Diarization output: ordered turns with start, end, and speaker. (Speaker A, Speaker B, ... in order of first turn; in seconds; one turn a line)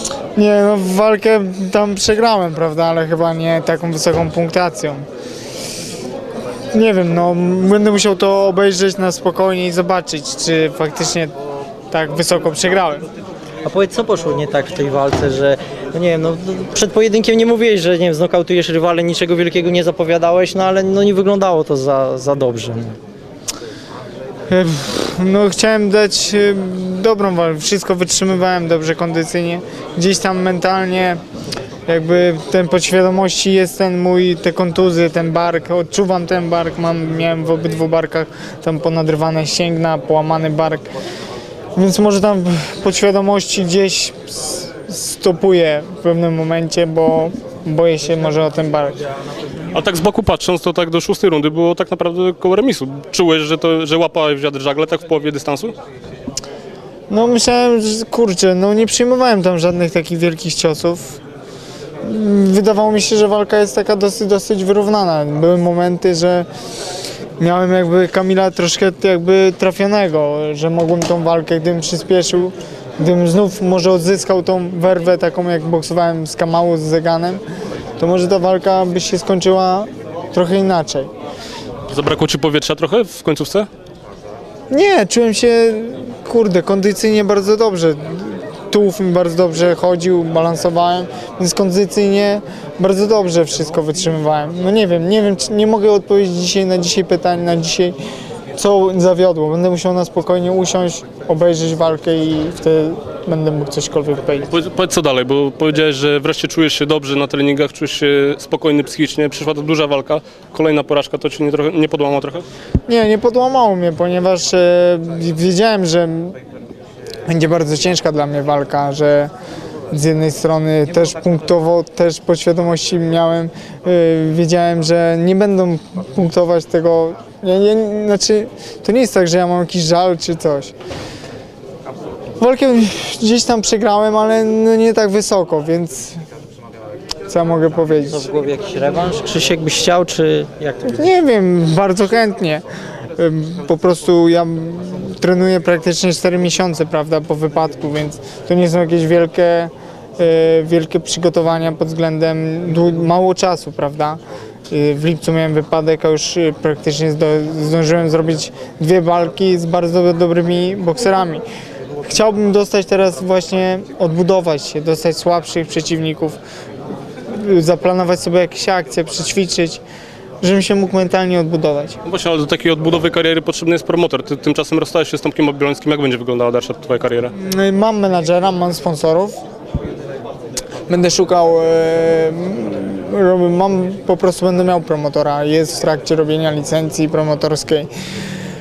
Speaker A: 0.3-5.0
Speaker A: 6.7-11.3
Speaker A: 11.9-13.1
Speaker B: 13.6-23.0
Speaker A: 24.5-31.2
Speaker A: 31.9-40.9
Speaker A: 41.8-49.0
Speaker C: 49.7-55.8
Speaker A: 57.1-61.2
Speaker A: 62.0-66.5
Speaker A: 67.4-77.4
Speaker A: 78.0-81.1
Speaker C: 81.9-83.7
Speaker A: 84.7-98.0
Speaker A: 98.5-104.5
Speaker C: 104.5-112.5
Speaker A: 112.9-116.4
Speaker A: 117.3-119.3
Speaker A: 119.9-130.7
Speaker A: 132.4-136.2
Speaker A: 137.3-138.3
Speaker B: 138.1-141.0
Speaker A: 140.9-142.7
Speaker A: 143.2-161.4
Speaker A: 162.0-166.4
Speaker A: 167.3-169.8
Speaker A: 170.4-172.0
Speaker C: 172.1-177.3
Speaker A: 177.3-179.4
Speaker A: 180.9-187.9